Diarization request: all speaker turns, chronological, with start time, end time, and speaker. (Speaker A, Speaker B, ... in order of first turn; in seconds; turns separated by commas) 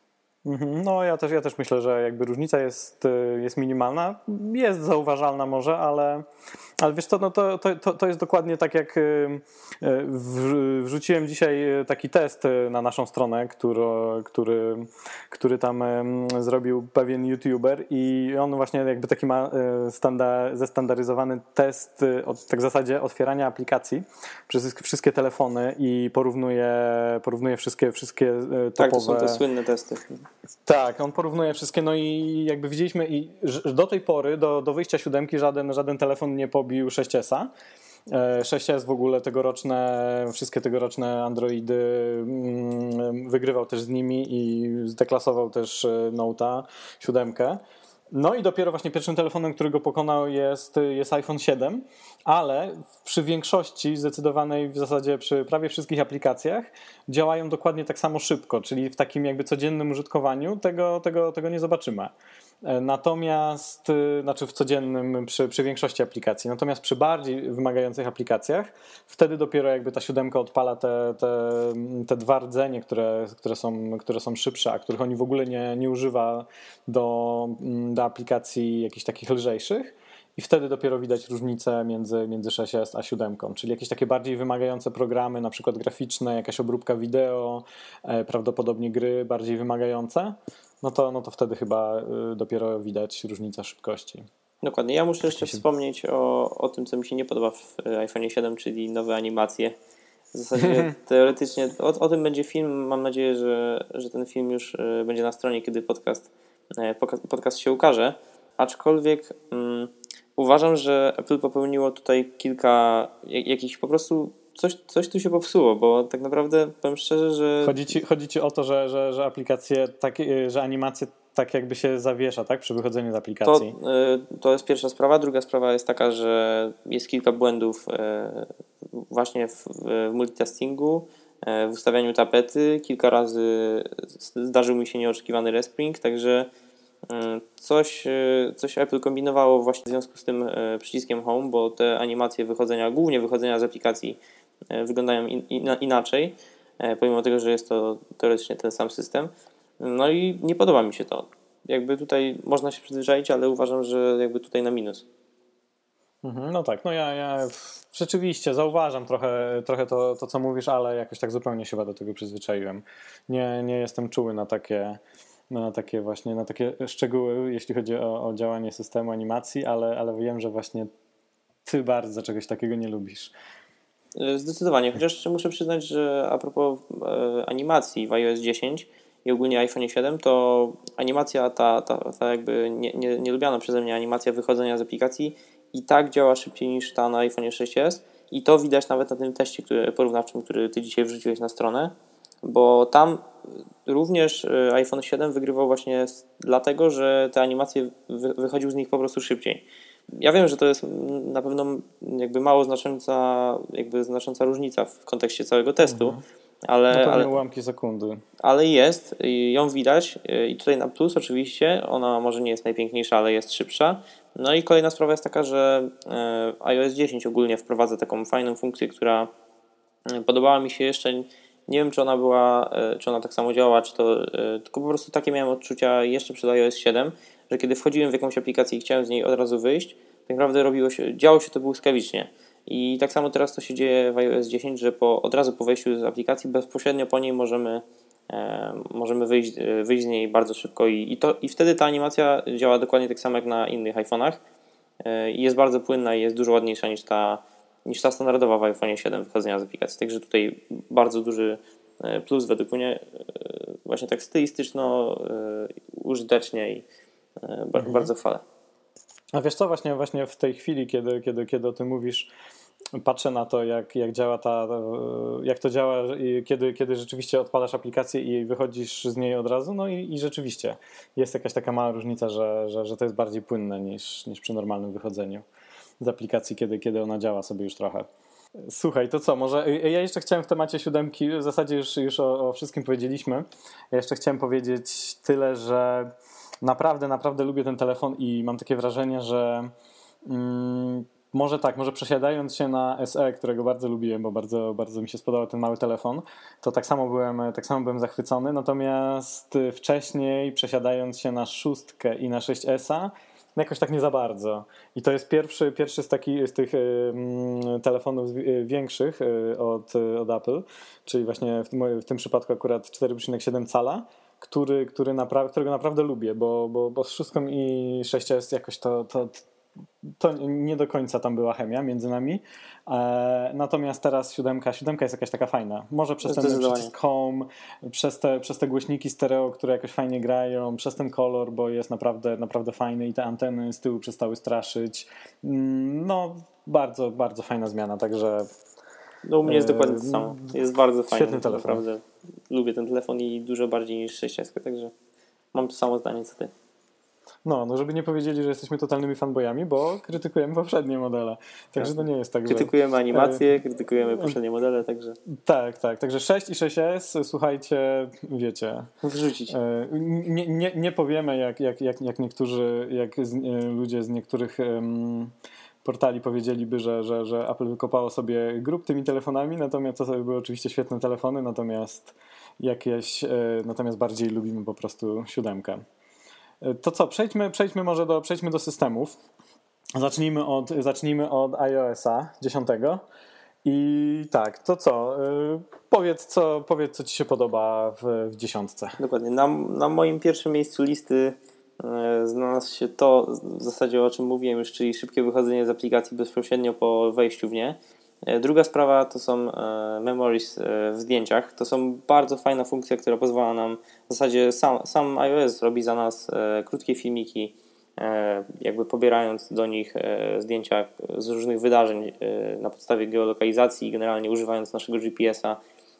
Speaker A: 0.4-6.2, Speaker A: 6.8-29.4, Speaker B: 28.8-30.2, Speaker A: 30.6-37.5, Speaker A: 38.1-47.6, Speaker A: 48.1-62.1, Speaker A: 62.6-94.3, Speaker B: 94.6-99.8, Speaker A: 95.3-95.6, Speaker B: 100.3-117.8, Speaker A: 100.6-100.9, Speaker A: 117.6-123.7, Speaker B: 123.4-136.5, Speaker B: 137.1-144.2, Speaker B: 144.7-155.0, Speaker A: 156.2-170.9, Speaker A: 171.6-173.3, Speaker B: 174.1-193.3, Speaker B: 193.8-206.2, Speaker A: 205.8-206.2, Speaker B: 206.7-207.3, Speaker A: 206.9-208.2, Speaker B: 208.4-219.3, Speaker B: 220.1-244.4, Speaker B: 245.0-256.8, Speaker B: 257.4-258.4, Speaker A: 257.8-258.1, Speaker A: 259.3-262.3, Speaker A: 263.0-275.4, Speaker A: 276.0-278.1, Speaker A: 278.6-289.7, Speaker A: 290.2-319.4, Speaker A: 320.2-338.5, Speaker B: 326.2-326.9, Speaker B: 339.2-344.9, Speaker A: 339.4-340.5, Speaker A: 341.1-341.8, Speaker B: 345.5-346.5, Speaker A: 347.4-353.4, Speaker B: 351.8-355.2, Speaker A: 355.3-358.9, Speaker B: 359.0-359.5, Speaker A: 359.5-365.3, Speaker A: 365.8-375.8, Speaker A: 376.6-379.2, Speaker A: 379.9-383.0, Speaker A: 383.6-389.0, Speaker B: 389.0-415.6